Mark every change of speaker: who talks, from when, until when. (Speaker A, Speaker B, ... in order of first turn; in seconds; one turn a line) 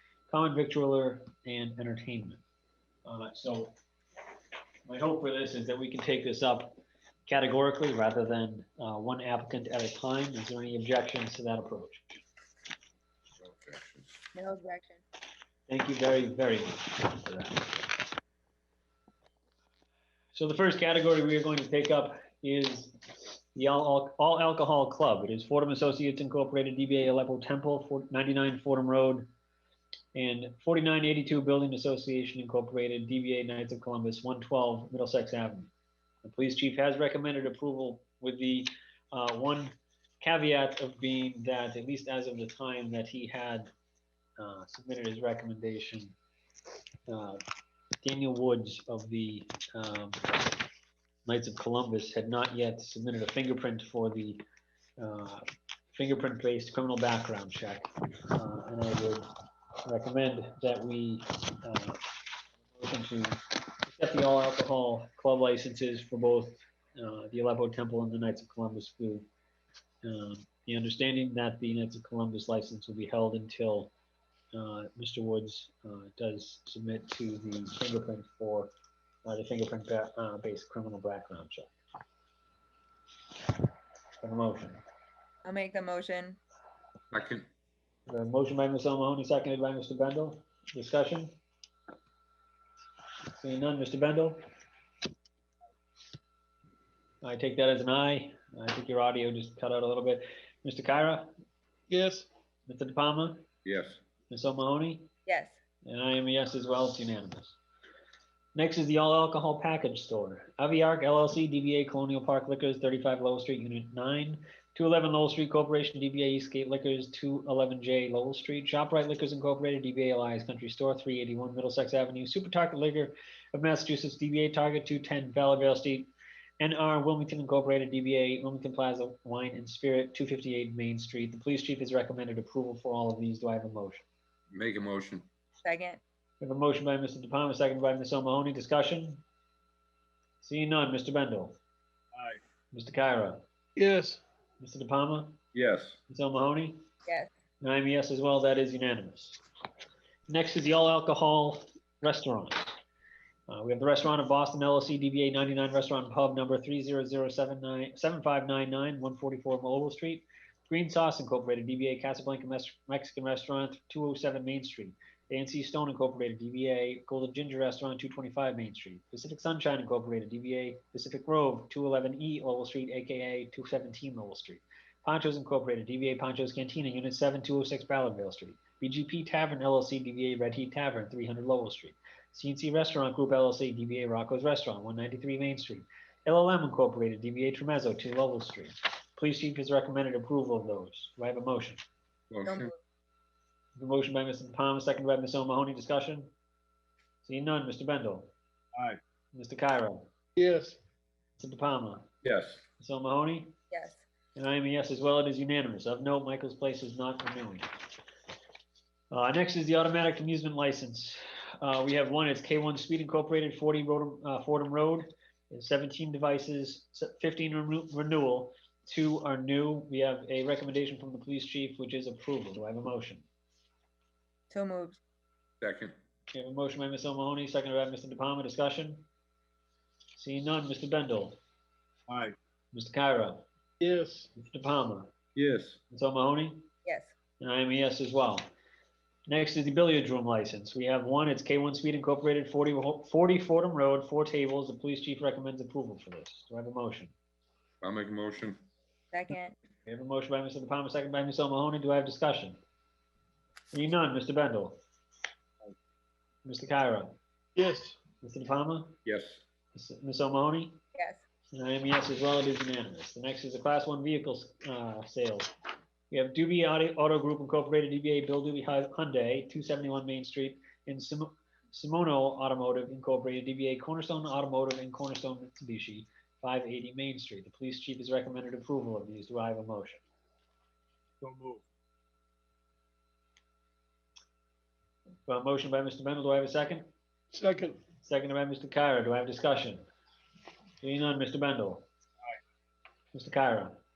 Speaker A: 0.3-2.4
Speaker A: 3.0-3.7
Speaker A: 4.8-12.2
Speaker B: 13.3-14.2
Speaker C: 14.3-15.0
Speaker A: 15.7-18.0
Speaker A: 20.3-29.3
Speaker A: 30.1-35.7
Speaker A: 36.2-43.7
Speaker A: 44.4-46.1
Speaker A: 47.1-47.4
Speaker A: 48.0-50.6
Speaker A: 51.2-54.4
Speaker A: 55.0-59.3
Speaker A: 59.8-62.0
Speaker A: 62.7-69.3
Speaker A: 70.0-73.9
Speaker A: 74.5-78.7
Speaker A: 79.2-81.7
Speaker A: 84.2-84.8
Speaker C: 85.4-86.4
Speaker B: 87.1-87.5
Speaker A: 88.1-91.3
Speaker A: 93.4-94.4
Speaker A: 97.2-101.3
Speaker D: 101.9-102.3
Speaker A: 102.7-103.4
Speaker B: 103.6-104.0
Speaker A: 104.3-105.1
Speaker C: 105.2-105.5
Speaker A: 105.8-107.5
Speaker A: 108.5-126.1
Speaker A: 126.6-134.1
Speaker B: 134.5-135.3
Speaker C: 135.6-136.0
Speaker A: 136.4-139.2
Speaker A: 140.4-141.6
Speaker A: 142.7-143.4
Speaker D: 143.8-144.2
Speaker A: 144.6-145.4
Speaker B: 145.5-146.0
Speaker A: 146.1-146.8
Speaker A: 147.6-149.4
Speaker A: 150.3-152.8
Speaker A: 153.5-191.8
Speaker B: 192.3-192.7
Speaker C: 192.4-192.7
Speaker A: 193.8-196.3
Speaker A: 197.2-198.3
Speaker A: 199.3-200.1
Speaker D: 200.3-200.8
Speaker A: 201.4-202.1
Speaker B: 202.2-202.6
Speaker A: 202.8-203.5
Speaker C: 203.7-204.0
Speaker A: 204.3-207.7
Speaker A: 209.1-223.2
Speaker C: 224.5-225.0
Speaker B: 225.6-225.9
Speaker A: 226.3-229.1
Speaker A: 230.1-231.4
Speaker A: 232.7-233.4
Speaker D: 233.8-234.3
Speaker A: 234.3-235.1
Speaker B: 235.3-235.8
Speaker A: 235.9-236.7
Speaker C: 236.8-237.1
Speaker A: 237.4-238.5
Speaker A: 239.3-247.1
Speaker B: 247.8-248.6
Speaker C: 249.1-249.5
Speaker A: 249.8-252.6
Speaker A: 253.7-254.8
Speaker A: 256.4-257.2
Speaker D: 257.6-258.0
Speaker A: 258.2-259.0
Speaker B: 259.0-259.4
Speaker A: 259.7-260.8
Speaker C: 260.9-261.2
Speaker A: 261.5-265.5
Speaker A: 266.1-280.0
Speaker A: 285.3-286.9
Speaker D: 287.3-287.8
Speaker A: 288.0-289.8
Speaker A: 290.8-291.8
Speaker A: 293.1-293.8